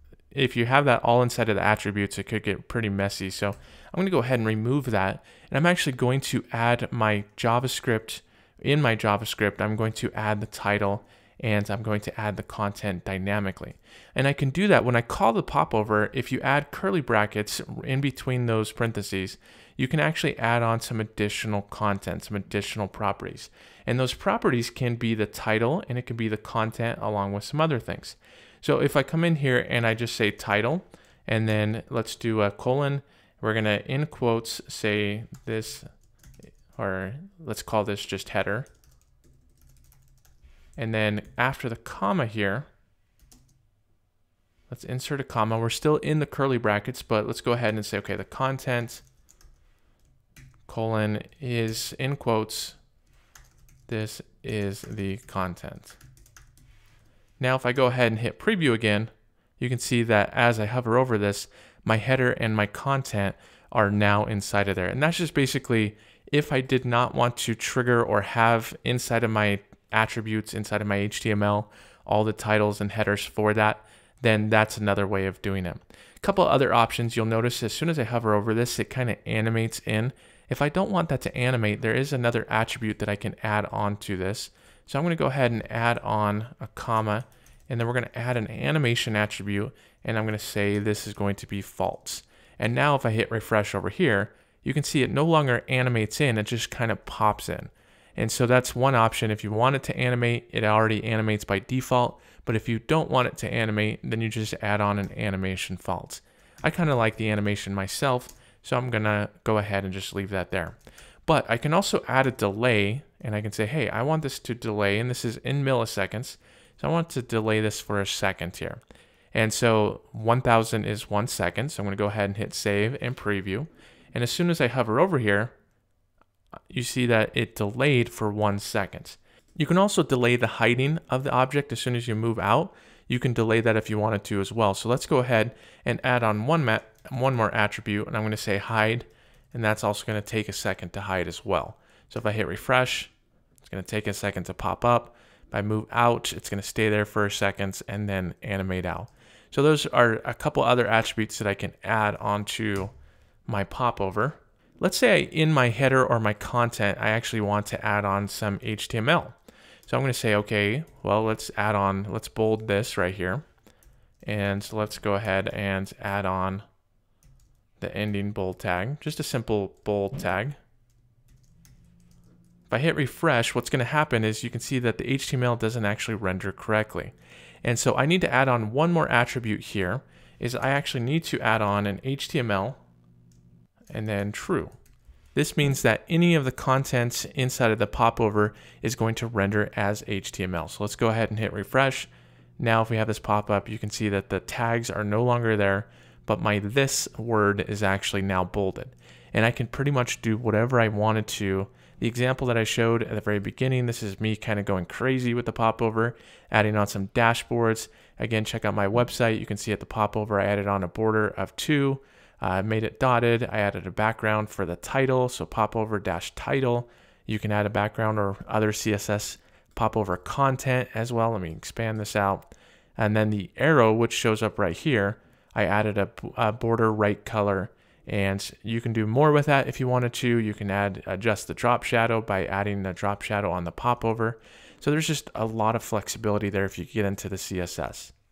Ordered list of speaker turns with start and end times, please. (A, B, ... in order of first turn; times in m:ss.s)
0:00.3-0:35.9 A
0:36.7-0:38.7 A
0:40.8-0:42.7 A
0:44.7-0:49.0 A
0:50.7-0:52.8 A
0:53.9-0:56.0 A
0:57.4-1:58.8 A
1:59.3-2:05.5 A
2:06.7-2:23.1 A
2:23.6-2:32.9 A
2:33.5-2:39.4 A
2:39.9-2:43.4 A
2:44.2-2:46.6 A
2:47.8-2:50.6 A
2:52.7-3:02.8 A
3:03.9-3:04.7 A
3:05.4-3:58.1 A